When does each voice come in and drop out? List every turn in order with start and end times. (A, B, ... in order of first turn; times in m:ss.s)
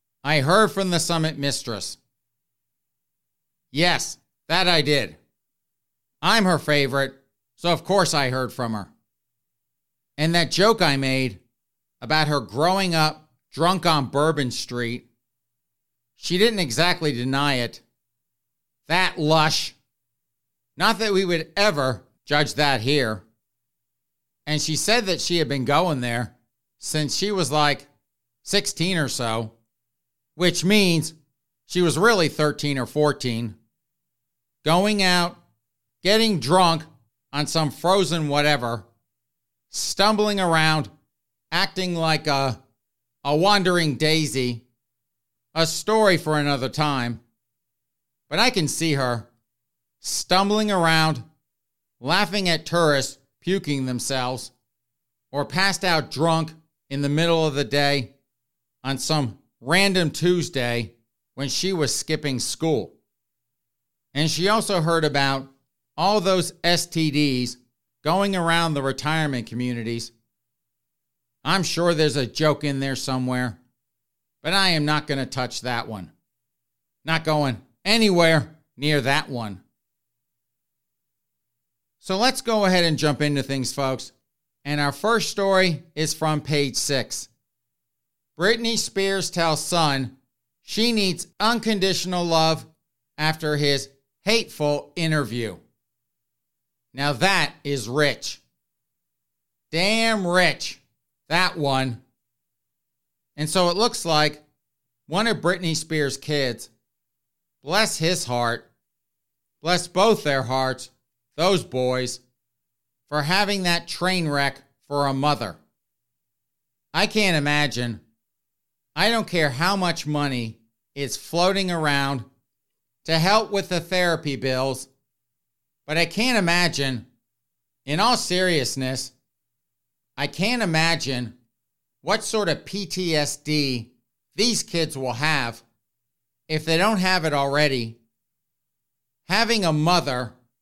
0:00.2-0:02.0 A
0:03.7-0:05.2 A
0:06.2-0:08.9 A
0:10.2-0:11.4 A
0:12.0-0:15.1 A
0:16.2-0:17.8 A
0:18.9-0:19.8 A
0:20.8-0:23.2 A
0:24.5-0:27.9 A
0:28.4-0:29.6 A
0:30.4-0:31.2 A
0:31.7-0:33.6 A
0:34.6-0:35.4 A
0:36.0-0:38.9 A
0:39.7-0:40.9 A
0:41.5-0:42.6 A
0:43.2-0:44.6 A
0:45.5-0:47.2 A
0:48.3-0:49.3 A
0:50.0-0:51.2 A
0:52.0-0:54.5 A
0:55.3-0:58.1 A
0:58.8-1:03.0 A
1:04.1-1:10.1 A
1:11.4-1:13.6 A
1:14.4-1:16.1 A
1:17.0-1:19.6 A
1:22.0-1:24.1 A
1:24.6-1:27.3 A
1:28.4-1:35.6 A
1:36.9-1:38.4 A
1:39.7-1:42.0 A
1:43.4-1:44.4 A
1:45.1-1:46.7 A
1:47.6-1:48.7 A
1:49.6-1:52.2 A
1:53.1-1:55.6 A
1:56.9-1:58.0 A
1:59.0-2:02.3 A
2:03.0-2:04.9 A
2:05.9-2:07.1 A
2:07.9-2:09.1 A
2:10.2-2:11.4 A
2:12.0-2:15.6 A
2:16.5-2:18.0 A
2:19.3-2:20.4 A